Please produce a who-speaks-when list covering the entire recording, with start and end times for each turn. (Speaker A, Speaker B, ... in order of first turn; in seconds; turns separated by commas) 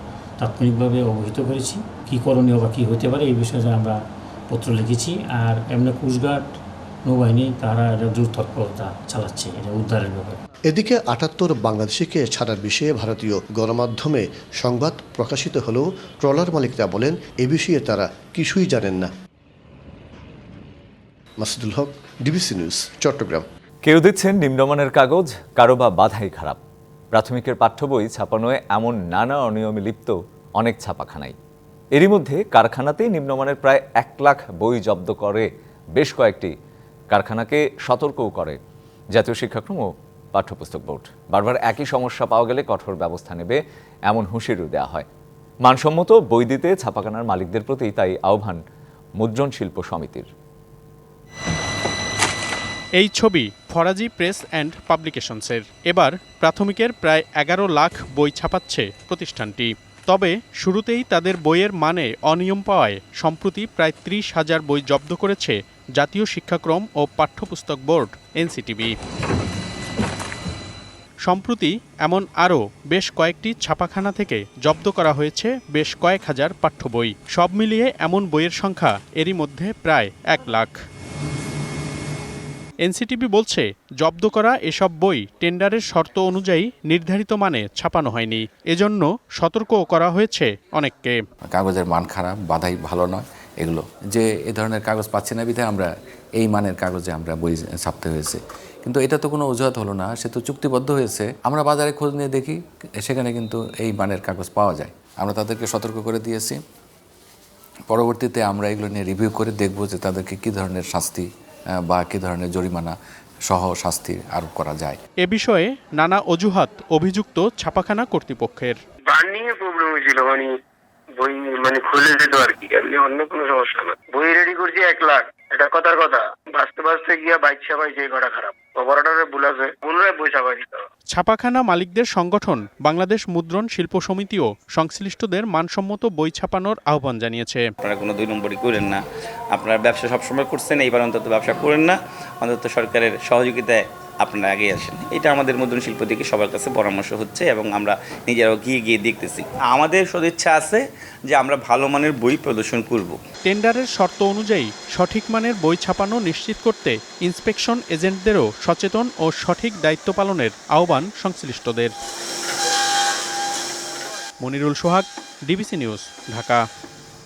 Speaker A: 0.4-4.0, Speaker A: 4.5-6.4, Speaker A: 7.1-10.4, Speaker B: 10.7-19.1, Speaker B: 21.4-23.4, Speaker C: 23.8-26.6, Speaker C: 27.1-31.3, Speaker C: 31.9-36.5, Speaker C: 37.1-38.6, Speaker C: 39.1-45.1, Speaker C: 45.6-48.6, Speaker C: 49.2-50.3, Speaker D: 53.0-69.0, Speaker D: 71.2-80.8, Speaker D: 82.8-91.2, Speaker E: 91.5-106.6, Speaker E: 107.9-115.0, Speaker D: 115.2-118.8, Speaker F: 119.1-120.4, Speaker F: 121.2-130.5, Speaker D: 131.1-137.7, Speaker G: 137.8-139.0, Speaker G: 139.5-153.2, Speaker D: 153.4-161.9, Speaker D: 164.4-166.6